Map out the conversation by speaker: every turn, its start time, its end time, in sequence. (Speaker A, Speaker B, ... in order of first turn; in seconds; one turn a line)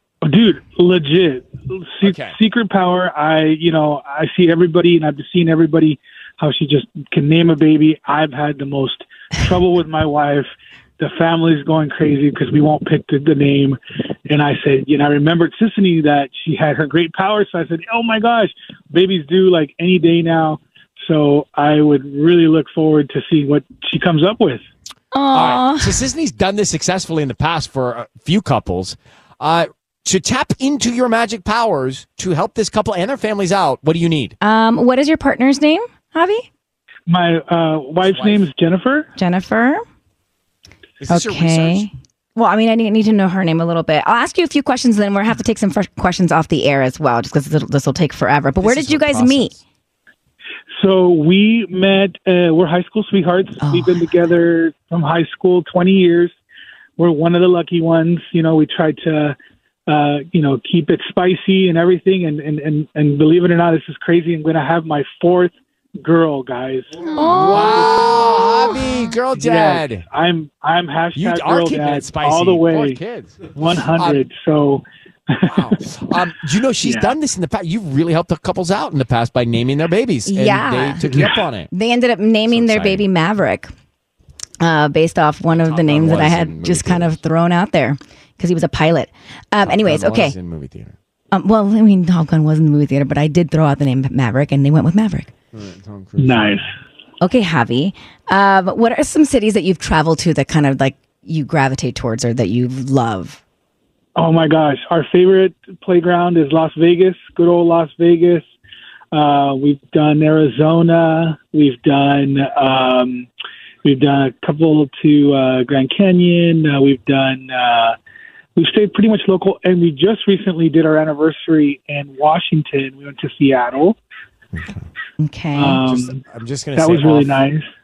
Speaker A: 0.2-24.6
Speaker B: 2.0-2.4
Speaker C: 25.1-25.9
Speaker B: 25.3-34.4
Speaker C: 34.4-36.5
Speaker A: 37.1-39.1
Speaker B: 38.1-38.5
Speaker C: 39.2-39.8
Speaker B: 41.0-41.9
Speaker C: 41.1-49.6
Speaker B: 48.6-49.6
Speaker A: 50.7-56.3
Speaker C: 53.6-54.1
Speaker A: 57.0-59.4
Speaker A: 59.9-67.0
Speaker C: 67.2-67.9
Speaker B: 67.3-70.0
Speaker A: 67.6-68.0
Speaker A: 69.3-75.8
Speaker B: 71.2-74.2
Speaker B: 75.5-81.7
Speaker A: 76.8-77.2
Speaker C: 80.3-83.7
Speaker A: 81.1-81.5
Speaker B: 82.5-83.0
Speaker C: 84.6-90.3
Speaker B: 85.6-87.2
Speaker B: 89.6-91.0
Speaker C: 91.3-95.3
Speaker B: 95.5-96.7
Speaker A: 96.2-96.7
Speaker C: 97.2-103.4
Speaker A: 104.2-108.5
Speaker A: 109.1-113.3
Speaker A: 113.8-118.0
Speaker A: 118.6-124.0
Speaker B: 124.5-124.9
Speaker C: 125.2-125.8
Speaker A: 125.5-126.2
Speaker B: 125.8-127.4
Speaker A: 126.8-127.7